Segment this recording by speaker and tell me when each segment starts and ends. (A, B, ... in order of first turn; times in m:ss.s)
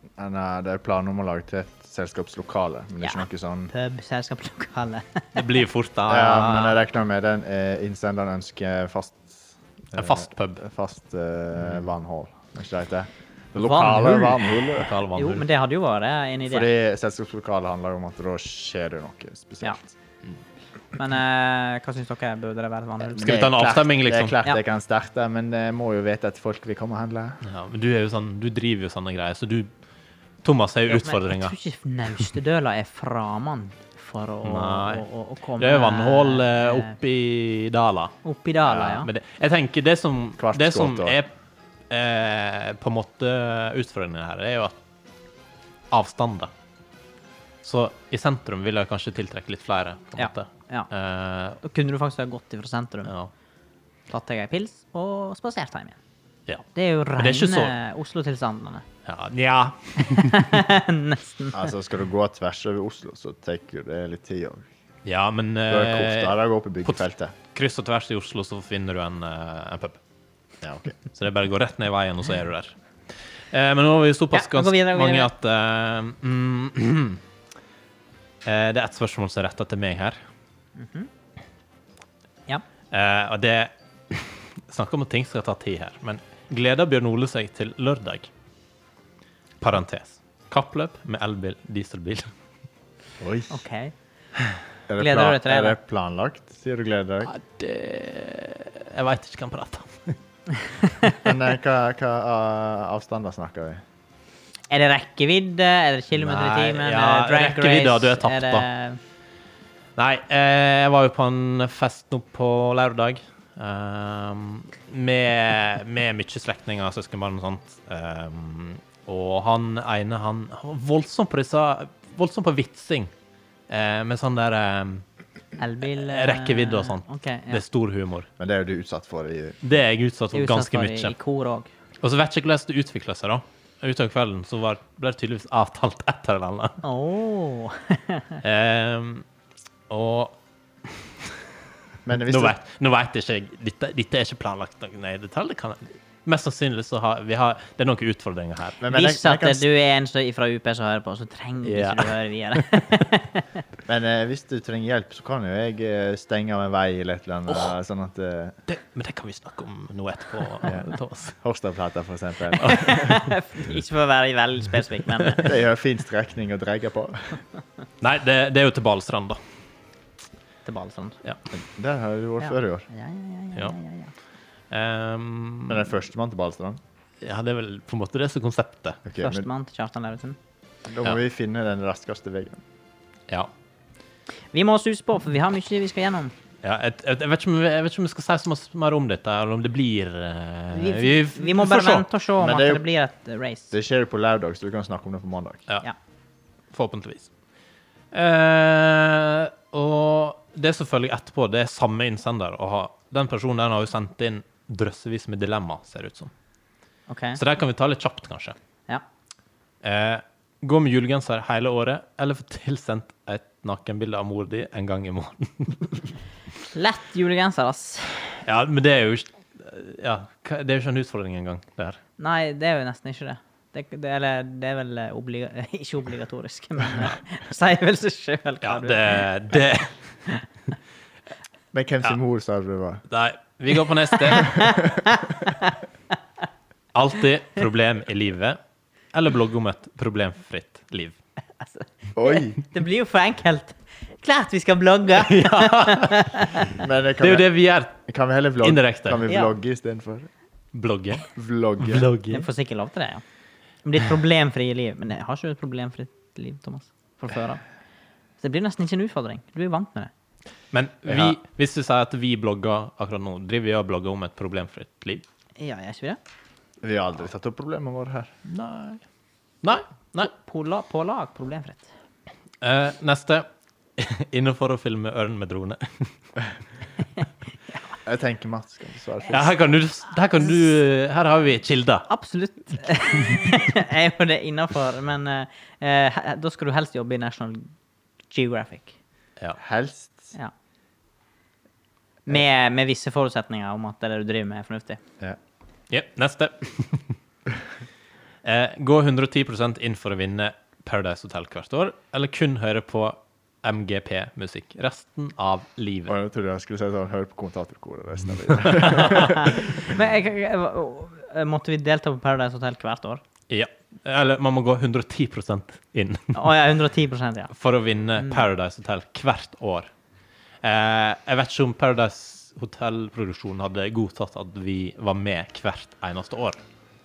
0:00.2-0:03.7 A
0:03.0-0:05.4 B
0:05.4-0:06.8 C
0:06.1-0:14.9 A
0:09.9-0:10.6 C
0:13.6-0:14.4 B
0:14.7-0:15.4 C
0:15.1-0:16.7 B
0:16.5-0:19.9 A
0:21.0-0:23.3 B
0:23.0-0:27.4 A
0:23.2-0:24.4 C
0:27.4-0:29.7 C
0:30.4-0:31.5 C
0:30.9-0:36.9 B
0:34.4-0:35.1 C
0:35.6-0:38.1 C
0:38.2-0:39.1 B
0:38.7-0:39.0 A
0:38.8-0:41.3 C
0:40.4-0:41.2 A
0:41.9-0:44.8 C
0:45.9-0:46.5 C
0:47.6-0:51.6 C
0:50.2-0:50.9 B
0:51.6-0:53.1 B
0:54.1-0:56.0 B
0:56.5-0:57.7 C
0:56.7-0:58.8 B
0:59.0-1:00.5 C
1:00.0-1:01.6 B
1:01.5-1:04.6 A
1:05.0-1:10.0 C
1:05.7-1:07.3 A
1:10.6-1:10.9 A
1:11.1-1:12.7 C
1:13.5-1:17.2 C
1:14.3-1:15.3 B
1:18.4-1:20.2 C
1:20.8-1:21.1 B
1:22.9-1:28.3 C
1:29.6-1:32.3 C
1:33.2-1:33.5 A
1:33.5-1:33.9 B
1:34.9-1:37.3 A
1:35.0-1:35.8 B
1:37.3-1:40.2 C
1:41.2-1:43.8 A
1:44.7-1:49.0 B
1:46.1-1:48.6 C
1:50.0-2:03.1 C
2:03.7-2:05.0 C
2:05.6-2:07.6 B
2:05.8-2:08.3 C
2:08.4-2:09.6 A
2:09.6-2:11.1 C
2:10.3-2:11.7 B
2:12.0-2:16.8 C
2:16.8-2:18.4 B
2:18.4-2:19.2 C
2:19.9-2:21.3 C
2:22.0-2:22.6 A
2:22.2-2:28.8 C
2:28.8-2:29.6 A
2:28.9-2:33.4 B
2:31.6-2:32.8 C
2:33.8-2:38.6 A
2:38.7-2:41.4 C
2:41.4-2:43.2 A
2:42.6-2:45.5 B
2:42.6-2:43.0 C
2:45.4-2:47.4 A
2:48.0-2:49.4 C
2:50.6-2:51.2 B
2:51.5-2:52.9 A
2:52.4-2:54.1 B
2:54.7-2:55.9 C
2:55.7-2:56.8 A
2:57.2-2:59.0 C
2:59.0-2:59.5 A
2:59.2-3:00.4 B
3:00.8-3:02.6 A
3:04.5-3:06.3 B
3:06.6-3:12.1 C
3:10.7-3:13.7 B
3:12.4-3:12.8 A
3:13.7-3:15.6 A
3:16.7-3:17.3 C
3:18.1-3:26.3 C
3:27.1-3:27.4 B
3:27.4-3:28.6 C
3:29.8-3:36.1 C
3:36.7-3:38.4 B
3:38.4-3:42.0 C
3:42.2-3:49.2 B
3:48.6-3:50.0 C
3:51.7-3:53.0 A
3:53.1-3:54.8 C
3:54.2-3:55.8 B
3:56.9-3:58.6 C
3:59.1-4:01.2 C
4:01.6-4:06.8 B
4:02.1-4:02.6 A
4:05.1-4:08.0 C
4:06.8-4:07.5 A
4:08.1-4:10.3 A
4:08.6-4:09.2 C
4:09.3-4:09.5 B
4:10.7-4:12.5 C
4:11.3-4:12.1 A
4:12.3-4:13.2 B
4:13.8-4:17.6 B
4:18.4-4:20.1 B
4:20.7-4:25.2 C
4:21.1-4:21.4 A
4:25.6-4:26.2 B
4:26.8-4:28.3 A
4:28.5-4:29.0 C
4:29.6-4:30.3 C
4:30.2-4:31.9 B
4:32.6-4:36.1 C
4:38.0-4:39.5 A
4:39.3-4:42.1 C
4:42.1-4:47.7 B
4:48.3-4:49.0 B
4:49.6-4:50.3 A
4:52.3-4:55.0 B
4:55.9-4:57.2 C
4:58.4-5:06.1 C
5:06.1-5:09.9 A
5:08.7-5:09.2 C
5:09.1-5:13.2 B
5:13.5-5:16.5 C
5:16.3-5:17.5 B
5:17.5-5:19.9 C
5:18.2-5:18.4 B
5:20.6-5:26.6 C